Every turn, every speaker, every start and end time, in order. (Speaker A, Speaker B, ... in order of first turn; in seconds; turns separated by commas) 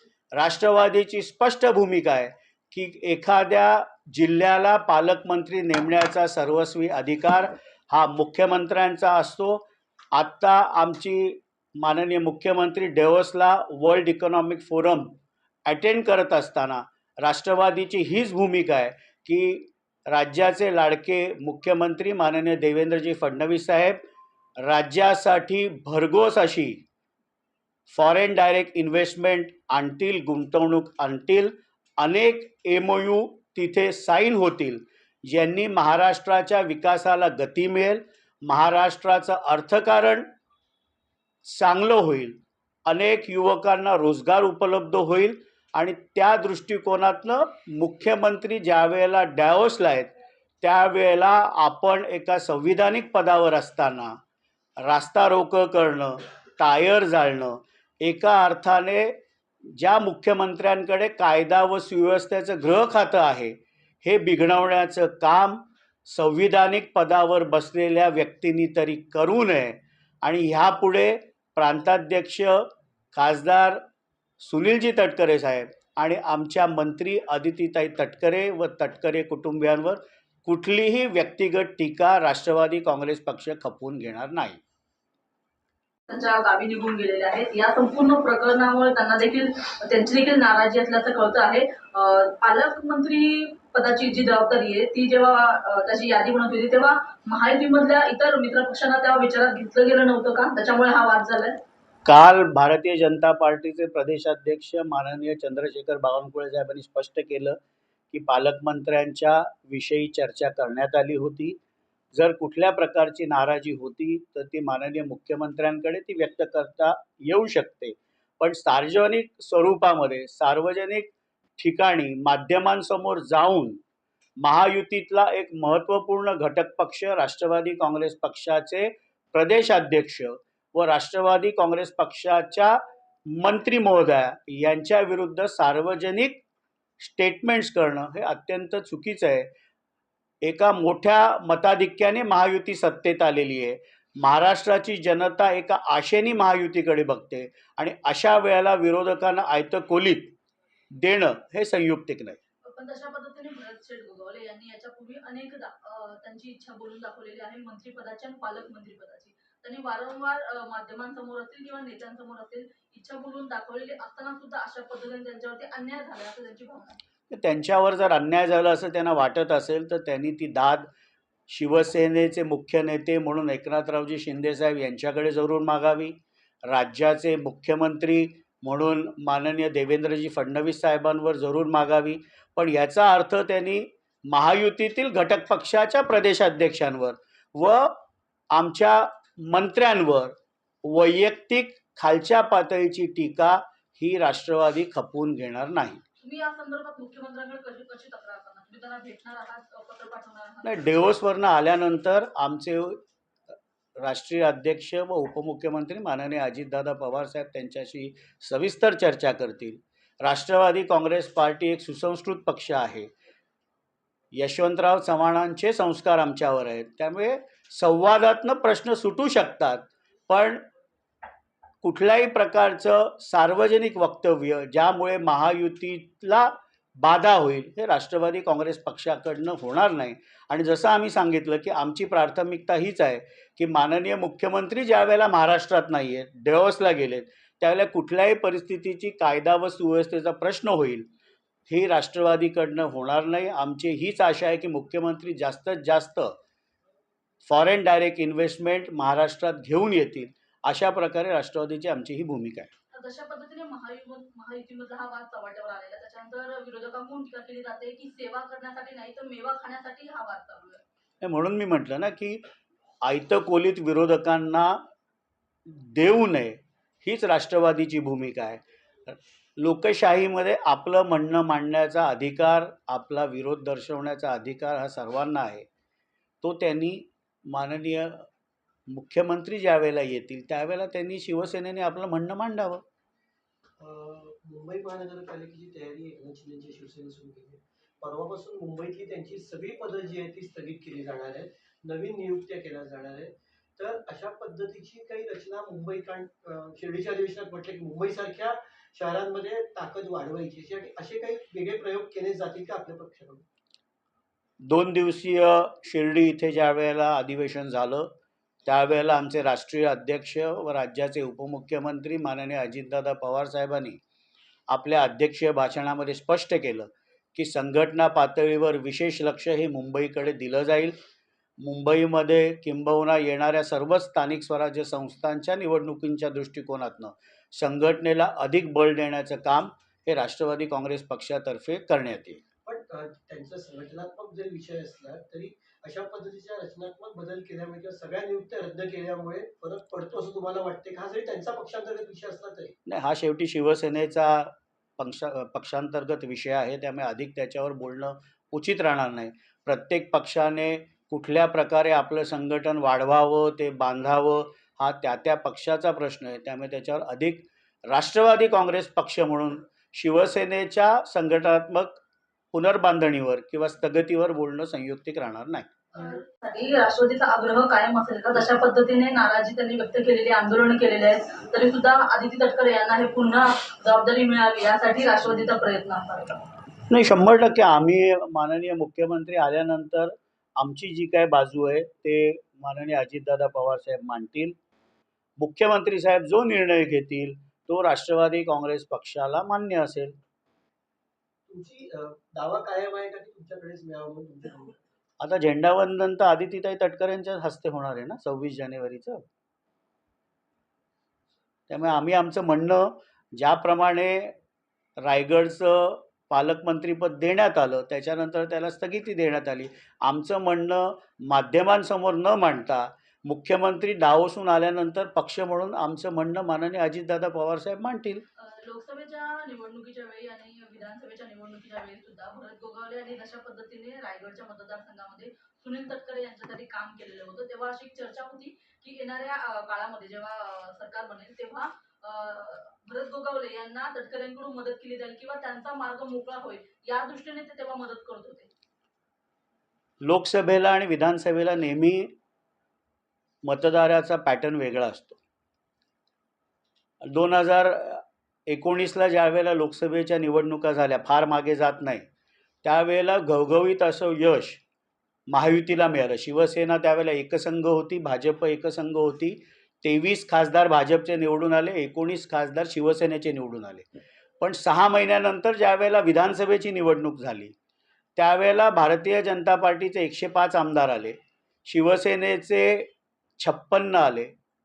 Speaker A: 0.3-15.1, Speaker A: 15.7-24.0, Speaker A: 24.6-26.8, Speaker A: 27.9-40.2, Speaker A: 41.5-50.1, Speaker A: 50.6-54.1, Speaker A: 54.8-59.1, Speaker A: 59.7-73.8, Speaker A: 74.4-84.6, Speaker B: 86.1-101.6, Speaker A: 102.0-107.6, Speaker A: 108.1-111.6, Speaker A: 112.1-123.8, Speaker A: 124.4-136.4, Speaker A: 137.0-139.5, Speaker A: 140.4-150.3, Speaker A: 150.9-152.4, Speaker B: 152.7-167.0, Speaker A: 167.3-170.9, Speaker A: 171.5-176.1, Speaker A: 176.7-188.0, Speaker A: 188.5-196.0, Speaker B: 196.2-201.0, Speaker A: 200.6-203.0, Speaker A: 204.0-213.1, Speaker A: 214.3-220.6, Speaker A: 221.8-241.1, Speaker A: 241.7-246.3, Speaker A: 247.4-252.7, Speaker B: 252.9-260.8, Speaker A: 261.2-262.4, Speaker A: 263.0-264.8, Speaker A: 265.7-275.6, Speaker A: 276.4-278.3, Speaker A: 278.9-282.8, Speaker C: 283.8-303.4, Speaker A: 304.7-308.1, Speaker A: 308.6-314.0, Speaker A: 314.7-320.9, Speaker A: 321.6-332.4, Speaker C: 332.6-342.7, Speaker A: 342.9-362.0, Speaker A: 362.5-365.7, Speaker B: 366.0-376.4, Speaker A: 376.9-384.6, Speaker A: 385.4-390.1, Speaker C: 391.5-394.8, Speaker A: 395.2-399.2, Speaker A: 401.7-404.3, Speaker A: 405.0-418.2, Speaker B: 418.4-438.5, Speaker A: 440.0-442.1, Speaker A: 443.4-445.2, Speaker A: 447.0-452.0, Speaker A: 452.6-454.6, Speaker A: 455.3-463.9, Speaker A: 464.4-467.5, Speaker A: 468.1-474.3